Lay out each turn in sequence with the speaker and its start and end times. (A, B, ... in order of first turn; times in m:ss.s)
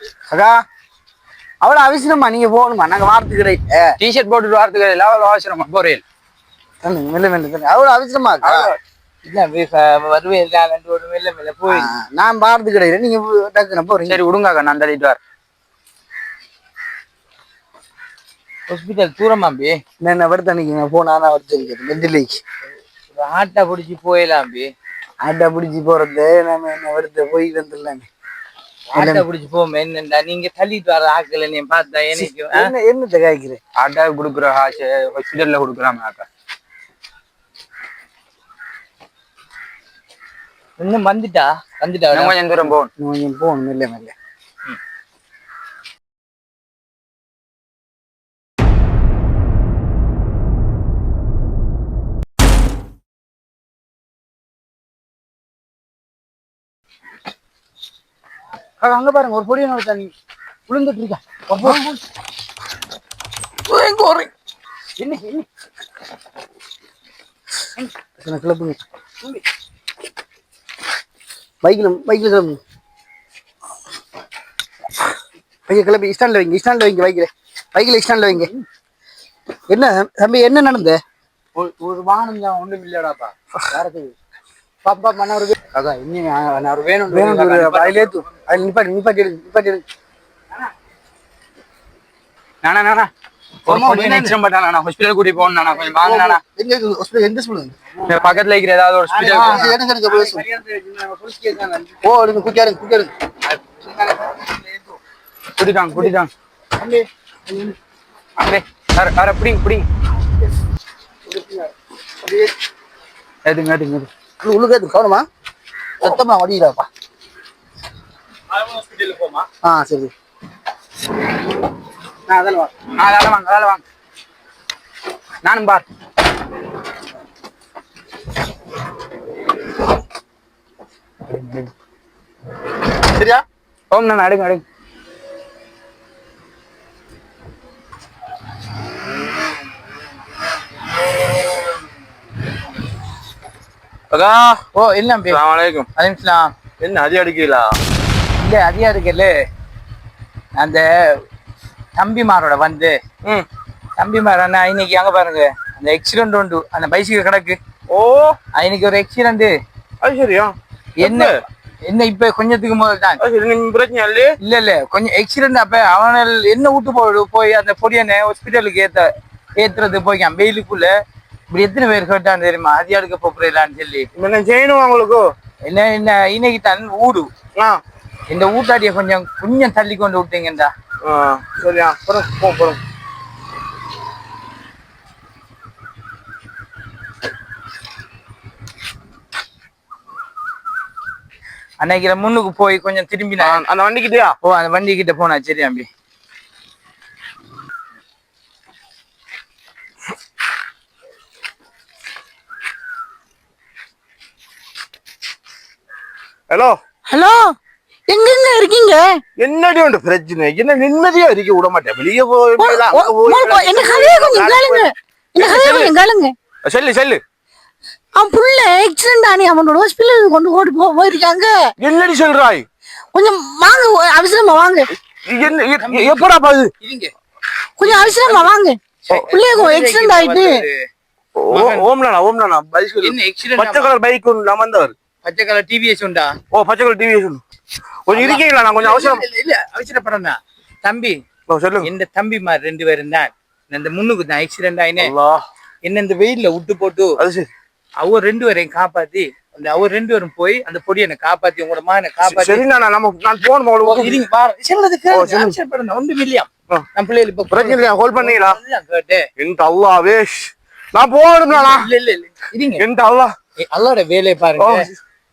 0:00.3-0:00.6 A
0:01.6-0:04.0 A
0:04.0-0:06.0 B
0:06.8-0:08.7 A
0:08.4-0:08.7 C
0:09.2-0:11.9 C
0:11.7-0:14.2 A
0:14.1-0:15.2 B
0:18.7-0:19.8 C
0:20.0-0:22.4 A
0:23.1-0:24.7 C
0:25.2-0:28.1 A
0:28.9-0:32.7 C
0:28.9-0:29.2 A
0:32.2-0:33.6 A
0:33.8-0:36.3 B
0:40.8-0:42.4 C
0:42.1-0:42.9 B
0:42.8-0:44.1 A
0:58.8-1:00.1 A
1:00.7-1:01.8 A
1:03.7-1:04.3 C
1:05.1-1:05.4 A
1:08.2-1:08.8 A
1:11.6-1:12.6 A
1:15.7-1:18.5 A
1:19.7-1:21.0 A
1:21.6-1:23.3 B
1:23.7-1:24.1 A
1:24.8-1:29.8 A
1:27.1-1:28.0 B
1:32.6-1:33.1 B
1:33.7-1:34.4 A
1:33.7-1:36.4 B
1:36.0-1:37.9 A
1:38.1-1:39.8 B
1:39.1-1:43.1 A
1:45.6-1:46.3 B
1:46.8-1:47.7 A
1:48.4-1:49.9 B
1:51.3-1:51.7 A
1:53.4-1:54.1 B
1:54.4-1:55.3 A
1:56.0-1:56.9 A
1:58.5-1:59.5 C
1:59.6-2:00.1 A
2:02.3-2:02.8 A
2:02.9-2:03.8 B
2:05.4-2:05.8 B
2:11.3-2:11.7 B
2:13.9-2:14.6 B
2:24.1-2:24.6 D
2:24.7-2:25.4 C
2:25.3-2:25.9 D
2:26.0-2:26.5 C
2:26.8-2:27.8 D
2:28.4-2:29.3 C
2:30.6-2:31.2 C
2:32.0-2:33.0 C
2:34.0-2:37.6 C
2:37.9-2:38.4 D
2:38.6-2:39.5 C
2:40.0-2:41.4 D
2:41.0-2:41.3 C
2:41.9-2:43.2 C
2:43.2-2:44.3 D
2:44.4-2:49.1 C
2:49.6-2:50.9 C
2:51.5-2:54.1 C
2:54.2-2:55.2 D
2:55.6-2:57.3 C
2:58.3-3:00.7 C
3:01.0-3:02.8 D
3:11.8-3:13.6 C
3:13.4-3:14.4 D
3:14.4-3:15.9 C
3:26.5-3:26.8 D
3:27.1-3:27.6 E
3:28.1-3:29.2 E
3:29.4-3:35.9 D
3:32.6-3:36.4 E
3:36.6-3:37.2 D
3:38.2-3:41.7 E
3:41.8-3:42.7 D
3:43.1-3:44.9 E
3:45.3-3:46.7 D
3:45.4-3:46.3 C
3:46.8-3:47.1 C
3:47.8-3:50.6 E
3:47.8-3:48.5 C
3:49.1-3:50.8 C
3:51.4-3:54.9 D
3:51.5-3:51.9 C
3:53.0-3:53.9 C
3:55.2-3:56.4 C
3:56.5-3:57.4 D
3:58.1-3:59.2 D
3:58.1-4:01.2 C
4:01.5-4:01.9 D
4:01.8-4:05.1 C
4:05.0-4:05.4 D
4:05.8-4:07.2 C
4:07.2-4:07.5 D
4:08.0-4:12.6 C
4:12.2-4:14.2 D
4:13.8-4:19.3 C
4:15.1-4:15.6 D
4:17.5-4:18.6 D
4:19.4-4:21.9 D
4:21.5-4:22.8 C
4:22.8-4:23.3 D
4:23.6-4:24.9 C
4:24.6-4:25.0 D